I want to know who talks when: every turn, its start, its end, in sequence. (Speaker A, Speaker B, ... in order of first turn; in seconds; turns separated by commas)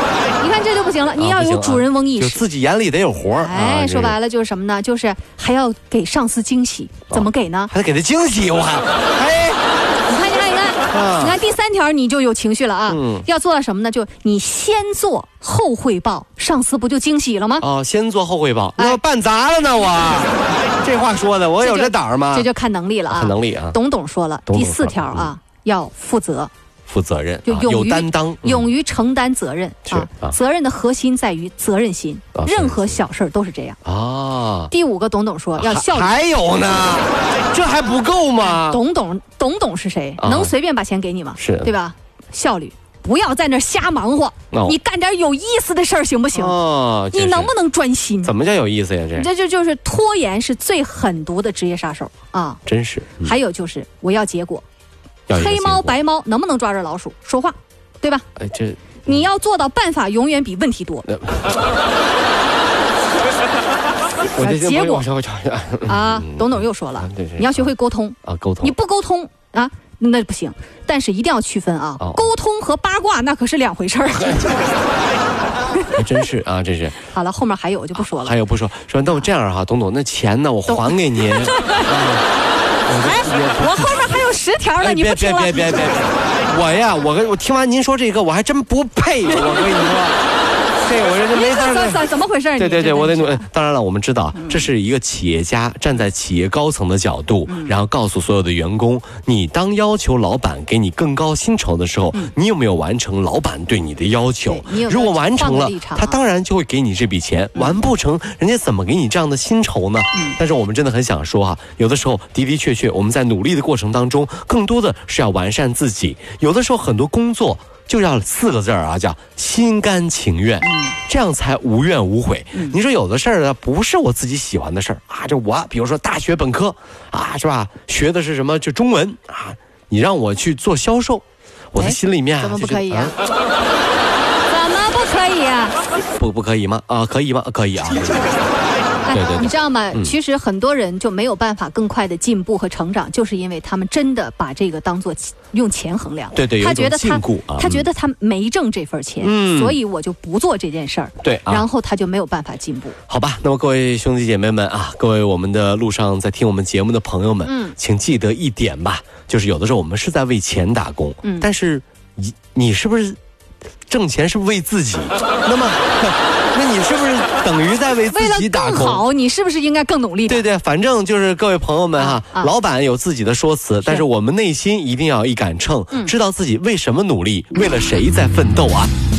Speaker A: 0.4-2.4, Speaker B: 1.2-4.2, Speaker A: 3.4-7.7, Speaker B: 7.1-9.6, Speaker A: 10.1-17.7, Speaker B: 10.9-11.4, Speaker B: 12.9-13.3, Speaker B: 17.6-22.5, Speaker A: 21.6-26.5, Speaker B: 23.1-23.8, Speaker B: 24.5-25.3, Speaker B: 26.9-28.7, Speaker A: 27.5-33.8, Speaker B: 29.9-30.4, Speaker B: 32.4-33.0, Speaker B: 33.8-34.7, Speaker A: 34.7-36.2, Speaker B: 35.6-38.8, Speaker A: 38.5-46.6, Speaker B: 40.2-40.5, Speaker B: 41.4-41.7, Speaker B: 44.5-44.8, Speaker B: 46.3-47.5, Speaker A: 47.1-48.3, Speaker B: 48.2-49.3, Speaker A: 49.2-52.6, Speaker B: 52.7-53.3, Speaker A: 53.2-54.6, Speaker B: 55.3-56.0, Speaker A: 55.3-58.3, Speaker B: 58.4-59.2, Speaker A: 59.1-61.1, Speaker B: 61.1-61.7, Speaker A: 64.3-65.1, Speaker B: 64.3-67.7, Speaker A: 65.9-74.7, Speaker B: 68.2-68.7, Speaker B: 72.0-72.3, Speaker A: 75.7-76.0, Speaker B: 75.9-77.0, Speaker A: 77.1-78.4, Speaker B: 78.0-82.2, Speaker A: 80.7-82.1, Speaker B: 82.9-84.0, Speaker A: 83.0-86.1, Speaker B: 84.8-90.2, Speaker B: 90.8-92.0, Speaker A: 91.3-93.5, Speaker B: 92.6-133.2, Speaker A: 94.3-94.7, Speaker A: 97.5-97.8, Speaker A: 104.5-106.2, Speaker A: 120.6-121.0, Speaker A: 131.8-133.2, Speaker A: 134.5-135.8, Speaker B: 136.2-138.4, Speaker A: 139.0-153.0, Speaker B: 139.1-140.2, Speaker B: 146.3-147.9, Speaker B: 149.2-149.8, Speaker B: 151.2-151.6, Speaker B: 153.1-163.2, Speaker A: 157.4-157.8, Speaker A: 161.2-161.5, Speaker B: 163.9-169.0, Speaker A: 168.1-170.5, Speaker B: 170.3-178.9, Speaker A: 172.0-172.5